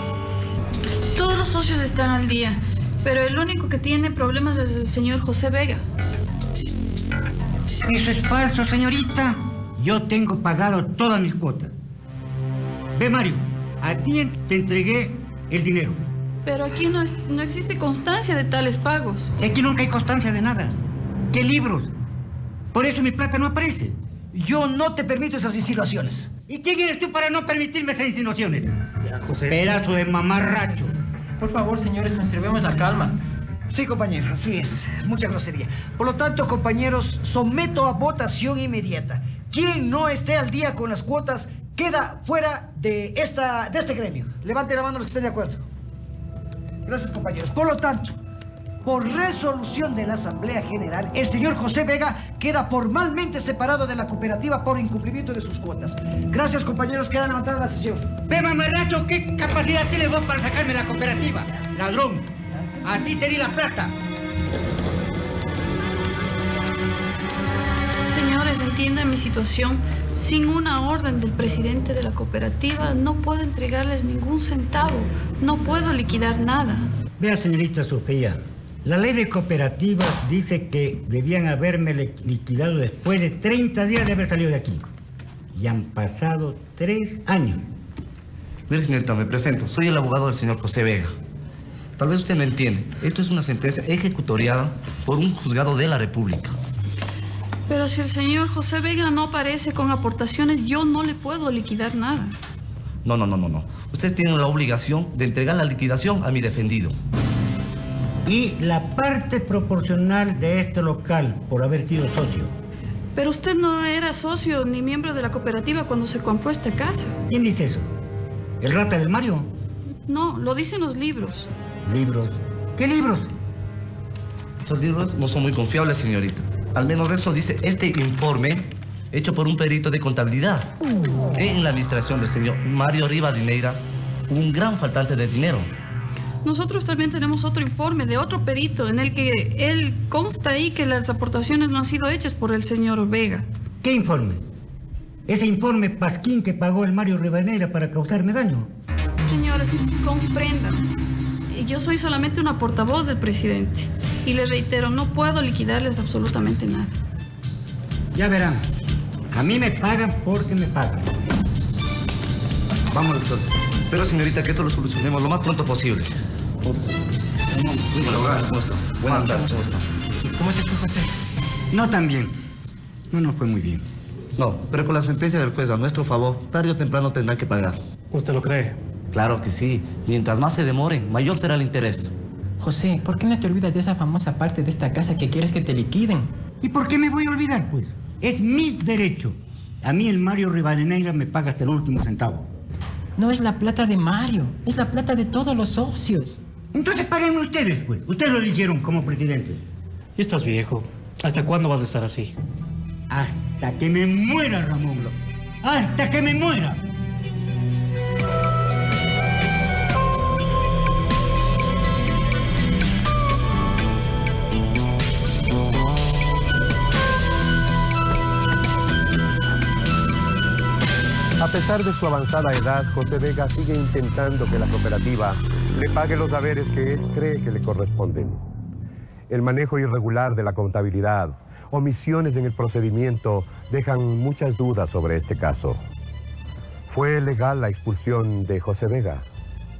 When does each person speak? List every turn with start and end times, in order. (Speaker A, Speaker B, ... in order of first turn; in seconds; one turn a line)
Speaker A: 1.1-5.8
Speaker B: 7.8-11.7
Speaker B: 12.9-16.0
Speaker A: 16.4-19.3
Speaker B: 19.4-20.8
Speaker B: 21.3-21.9
Speaker B: 22.7-24.0
Speaker C: 24.3-26.3
Speaker B: 26.5-28.8
Speaker B: 29.4-30.9
Speaker D: 31.4-33.1
Speaker C: 33.7-45.6
Speaker C: 46.9-48.2
Speaker C: 48.8-58.1
Speaker B: 58.3-62.3
Speaker B: 62.8-64.0
Speaker A: 68.0-76.9
Speaker B: 77.2-84.8
Speaker B: 85.5-87.7
Speaker E: 88.7-91.1
Speaker E: 92.0-96.6
Speaker A: 97.7-102.4
Speaker E: 103.0-107.0
Speaker B: 108.3-112.5
Speaker A: 113.2-117.2
Speaker B: 117.3-117.9
Speaker B: 118.6-119.5
Speaker A: 120.1-121.5
Speaker B: 121.8-123.3
Speaker E: 124.7-130.7
Speaker E: 131.3-135.7
Speaker A: 136.4-143.5
Speaker B: 143.8-144.4
Speaker B: 145.3-148.7
Speaker A: 149.2-150.9
Speaker A: 151.5-157.0
Speaker B: 158.1-158.7
Speaker B: 159.3-161.1
Speaker E: 163.9-166.1
Speaker B: 167.5-168.3
Speaker E: 168.0-169.9
Speaker D: 169.2-169.6
Speaker D: 170.2-171.1
Speaker B: 171.7-172.3
Speaker B: 173.1-173.8
Speaker E: 174.4-177.8
Speaker F: 178.1-178.8
Speaker E: 179.1-182.1
Speaker D: 182.6-186.3
Speaker B: 186.6-192.5
Speaker D: 193.2-196.4
Speaker B: 196.7-199.6
Speaker F: 200.2-202.3
Speaker B: 203.1-206.8
Speaker G: 221.4-228.4
Speaker G: 229.3-235.8
Speaker G: 236.9-239.2